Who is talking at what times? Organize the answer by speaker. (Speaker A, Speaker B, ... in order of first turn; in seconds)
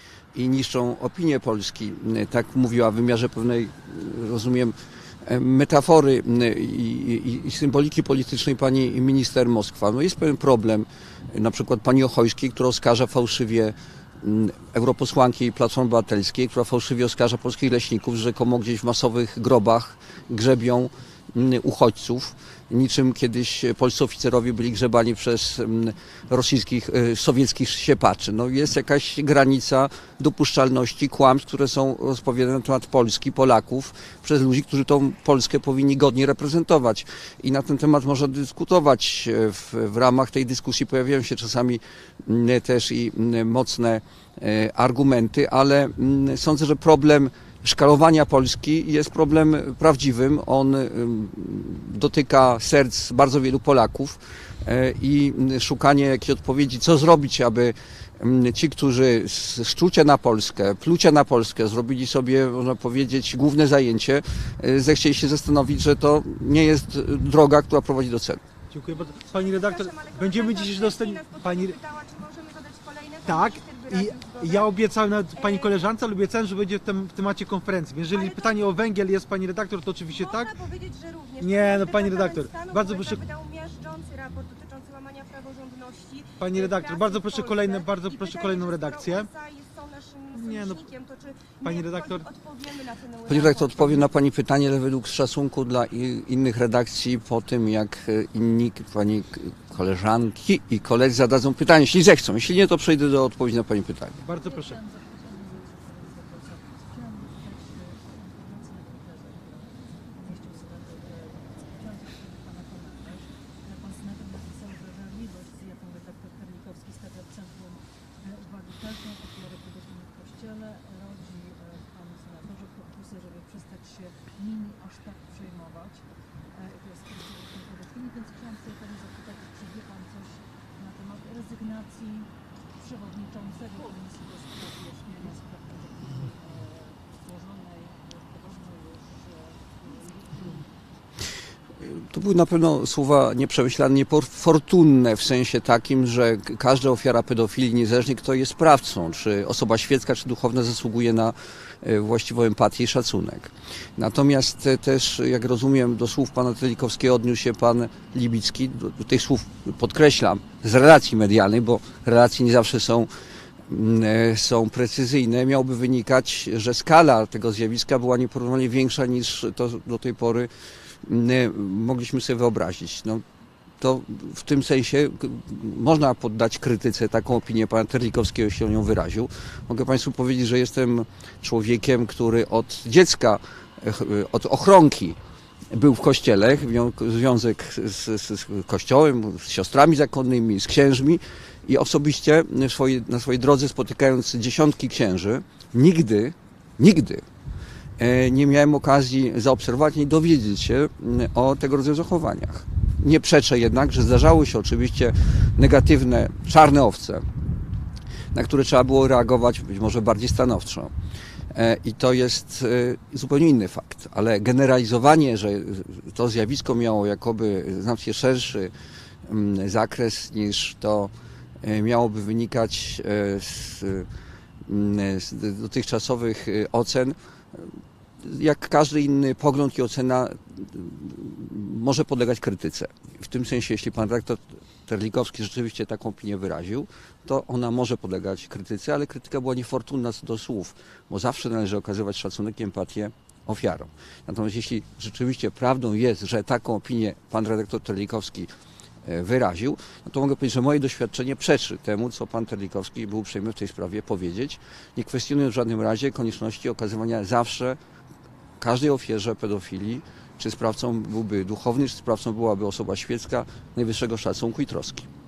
Speaker A: 0.3-68.4, 93.3-104.2, 141.8-163.1, 163.7-170.5, 171.0-173.2, 173.8-185.2, 185.7-197.2, 198.0-207.2, 208.3-210.9, 211.5-218.7, 219.3-221.1, 221.6-224.1, 224.7-227.7, 228.2-248.5, 249.1-257.8, 258.6-265.1
Speaker B: 68.7-71.8, 73.2-80.6, 81.4-83.3, 86.4-89.3, 90.3-90.9, 91.6-92.3, 104.2-104.8
Speaker C: 68.9-74.7, 75.3-75.9, 78.1-78.7, 80.1-94.1
Speaker D: 104.3-140.8